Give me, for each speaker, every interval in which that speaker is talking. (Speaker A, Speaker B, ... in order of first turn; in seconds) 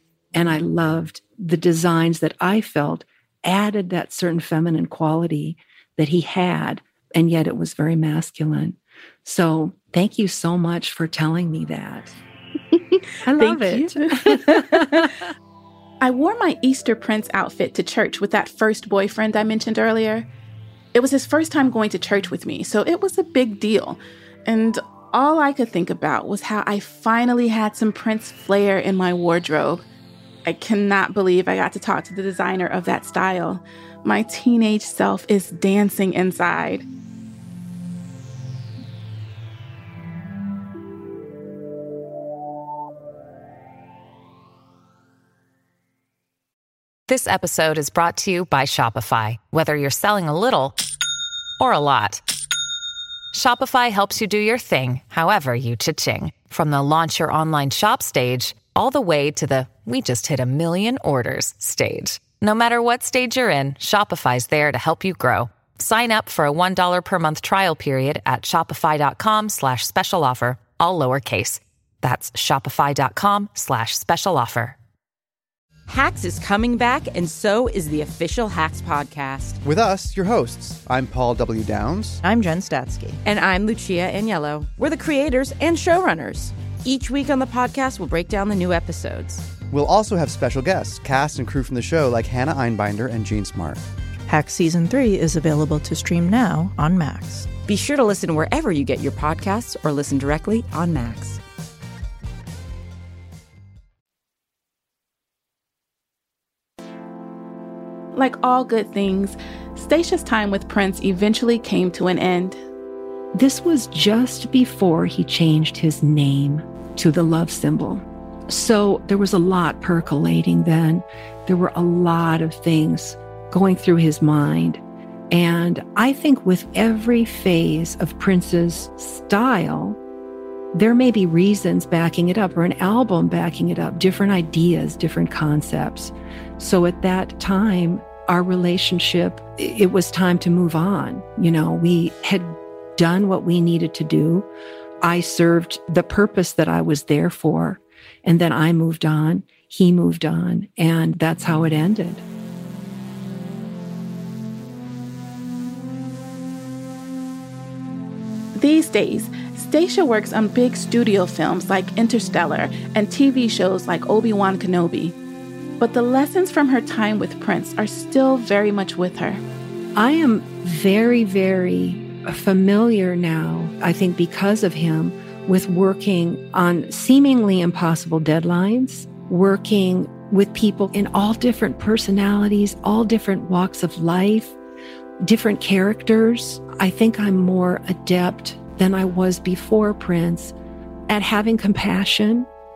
Speaker A: 0.3-12.2, 13.2-15.3, 113.3-124.8, 125.3-130.0, 130.7-144.5, 145.0-152.2, 169.9-184.5, 185.2-190.5, 191.1-192.5
Speaker B: 13.4-15.0, 16.0-20.2, 20.9-29.8, 30.4-36.8, 108.1-112.6, 158.5-165.1, 165.8-169.4
Speaker C: 47.1-50.8, 51.6-52.2, 53.3-74.8
Speaker D: 75.9-79.6, 82.7-89.5, 97.6-101.4
Speaker E: 79.6-82.2, 89.7-93.8
Speaker F: 82.2-83.1, 94.3-97.5